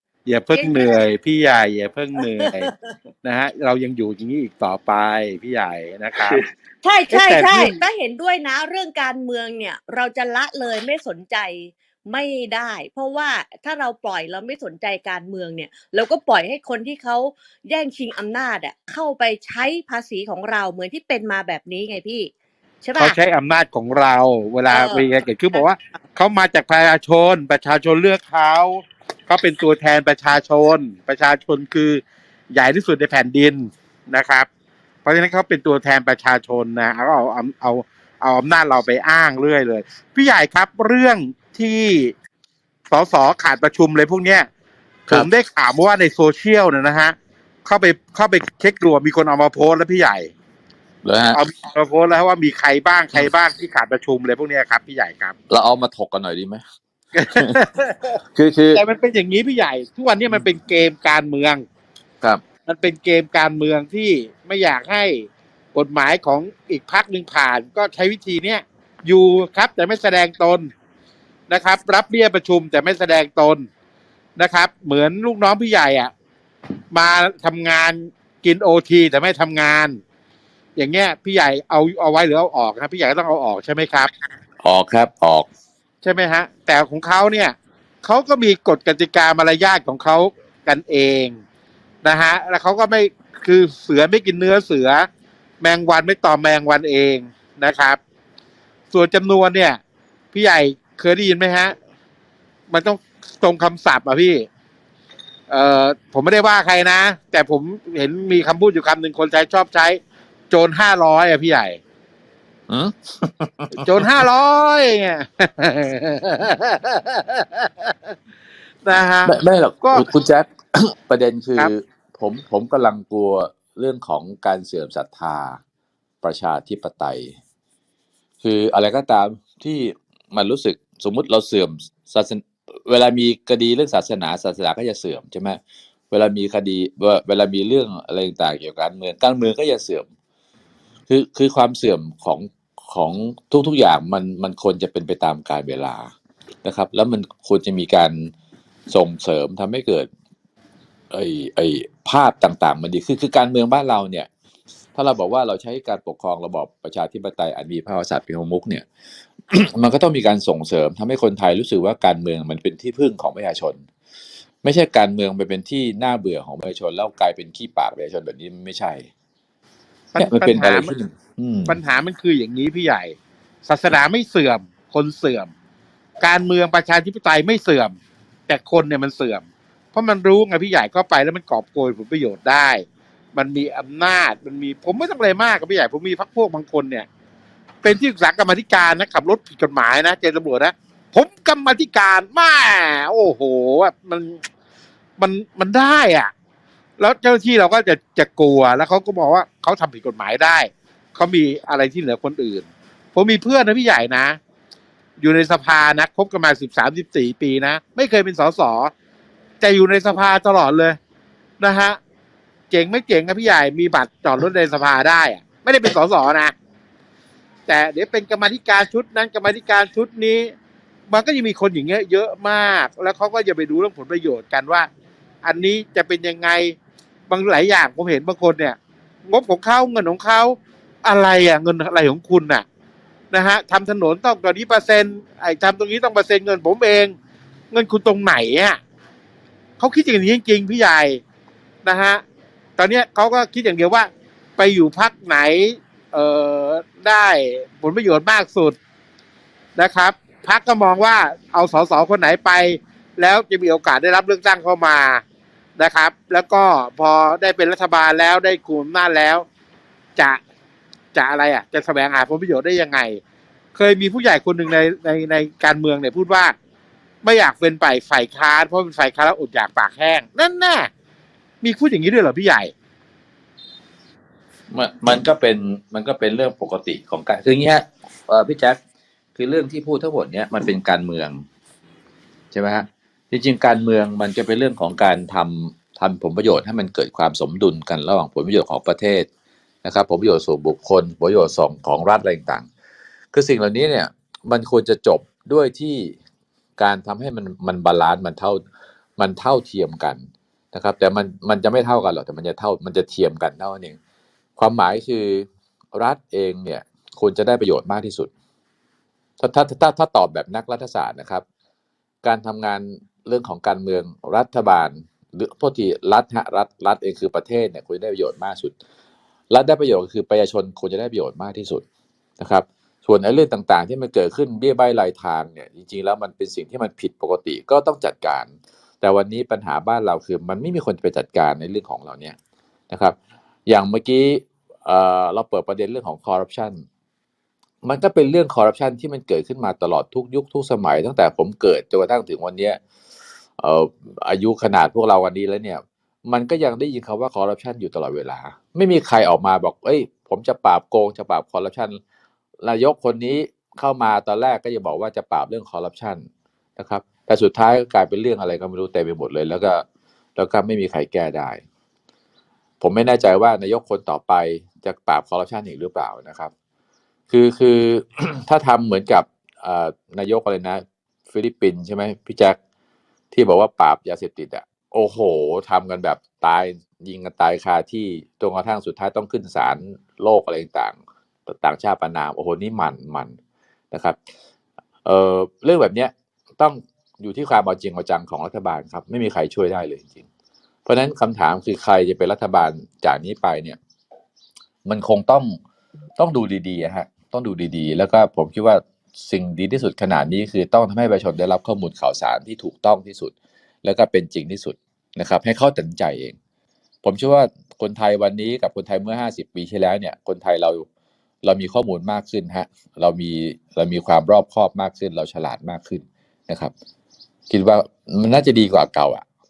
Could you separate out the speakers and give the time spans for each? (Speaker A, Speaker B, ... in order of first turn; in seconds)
Speaker A: 0.2-2.7, 3.2-6.4, 7.1-7.8, 23.0-34.5, 35.0-42.1, 42.9-44.5, 45.1-50.3, 51.3-55.3, 57.1-58.2, 58.7-61.6, 62.6-70.7, 71.5-73.7, 74.4-76.1, 76.9-80.0, 80.8-84.1, 86.0-91.4, 92.0-95.1, 95.6-98.0, 98.9-99.8, 100.3-101.7, 102.7-104.5, 105.5-110.0, 110.5-111.8, 113.8-118.1, 118.8-120.1, 170.1-170.9, 171.7-175.5, 176.2-177.9, 178.5-187.1, 187.8-194.4, 195.2-196.3, 197.0-204.4, 205.2-208.9, 209.6-211.0, 211.6-212.0, 212.7-216.5, 217.7-220.5, 221.1-224.9, 225.4-226.8, 227.3-232.6, 233.3-237.1, 237.7-238.8, 239.8-241.2, 241.8-242.2, 242.8-248.8, 249.8-255.2, 255.8-259.4, 261.1-263.2, 263.7-266.5, 267.2-270.9, 271.6-272.7
Speaker B: 0.5-1.0, 2.2-2.7, 6.3-22.3, 22.8-23.2, 24.7-25.6
Speaker C: 51.0-51.4, 55.5-56.6, 57.3-57.6, 58.3-58.8, 84.6-85.5, 112.7-114.1, 119.2-125.6, 126.2-127.3, 128.4-135.6, 136.1-140.1, 141.1-146.1, 146.6-148.3, 148.9-150.1, 151.1-154.3, 154.9-158.8, 159.5-163.8, 164.6-169.1, 170.2-171.7, 274.7-278.8, 279.3-281.4, 282.5-289.3, 289.8-292.7, 293.3-296.2, 296.8-298.6, 299.2-304.0, 304.6-308.3, 309.4-311.4, 312.2-318.7, 319.5-321.8, 322.4-332.4, 332.9-333.1, 333.7-336.8, 337.8-342.8, 343.6-352.0, 352.6-356.2, 356.8-359.8, 360.4-361.6, 362.8-366.5, 367.3-372.6, 373.3-383.3, 383.9-384.2, 385.0-390.3, 390.9-393.8, 394.9-395.6, 396.2-406.4, 407.0-410.9, 411.4-416.7, 417.5-419.2